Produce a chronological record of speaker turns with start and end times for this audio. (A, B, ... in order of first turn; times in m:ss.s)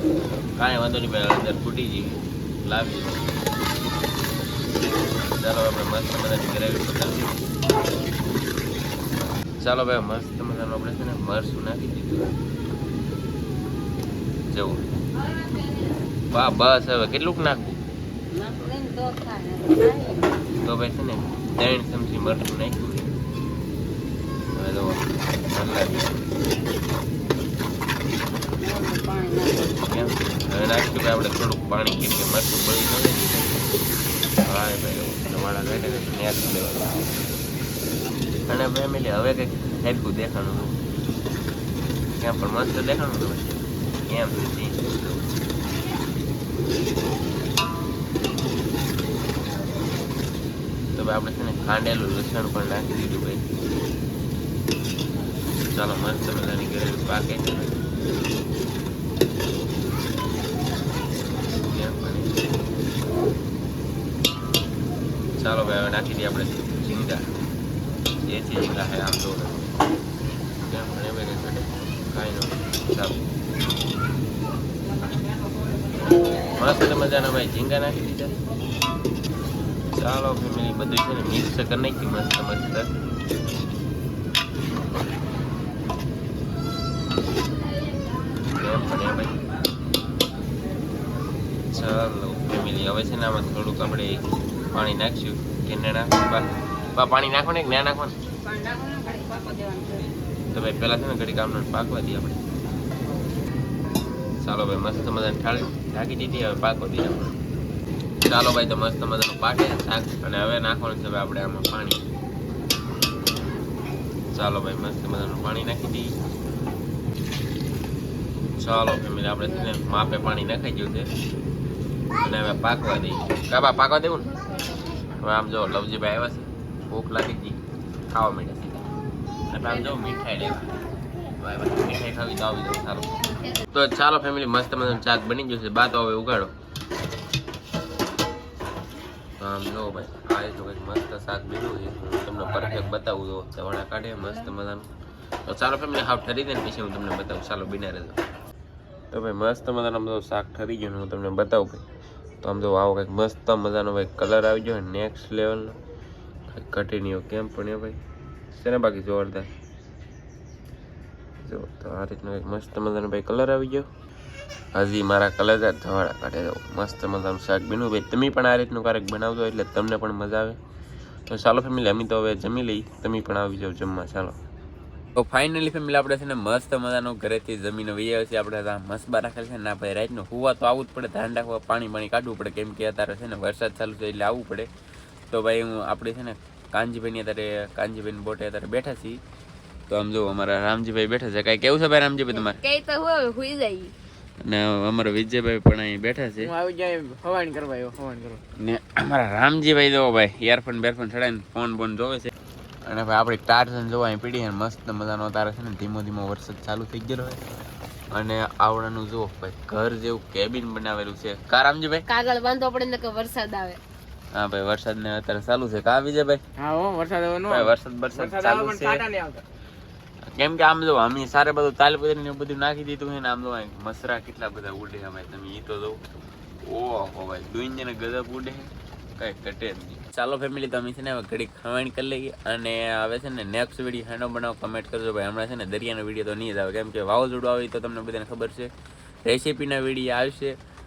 0:00.5-0:03.4 A
0:05.3-0:07.4 A
0:09.6-0:12.4 A
0:14.5-0:14.8 A
0:16.3-0:17.8 A
0:18.3-0:20.4 B
0:20.6-0:23.1 A
0:24.5-0:26.2 A
0:28.6-0:29.8 B
0:29.8-0:33.6 A
0:34.4-0:37.1 A
0:38.5-0:40.8 A
0:42.2-0:45.2 A
0:51.0-0:53.4 A
0:55.7-0:57.8 A
1:01.6-1:02.4 A
1:05.4-1:07.2 A
1:08.3-1:09.7 A
1:10.6-1:13.2 A
1:16.6-1:18.4 A
1:19.9-1:22.9 A
1:28.6-1:29.4 A
1:31.7-1:38.2 A
1:38.4-1:40.1 B
1:40.5-1:42.4 A
1:44.4-1:47.4 A
1:48.2-1:52.0 A
1:54.3-1:56.1 A
1:58.6-2:01.1 A
2:02.2-2:04.3 A
2:05.2-2:08.9 A
2:09.5-2:10.7 A
2:11.4-2:13.1 A
2:13.7-2:16.5 A
2:19.4-2:24.9 A
2:25.5-2:28.2 A
2:29.1-2:31.8 A
2:32.4-2:35.8 A
2:36.5-2:38.0 A
2:38.5-2:39.5 A
2:41.4-2:43.9 A
2:44.7-2:50.6 A
2:51.3-2:54.4 A
2:55.2-3:04.7 A
3:05.3-3:09.2 A
3:09.9-3:12.6 A
3:12.6-3:13.9 B
3:14.4-3:16.5 A
3:16.4-3:18.4 C
3:18.6-3:22.3 A
3:22.8-3:27.4 A
3:28.1-3:32.0 A
3:32.1-3:33.8 B
3:34.3-3:36.4 A
3:36.6-3:39.4 C
3:37.5-3:39.0 A
3:40.3-3:46.0 A
3:46.6-3:58.7 A
3:59.2-4:00.6 A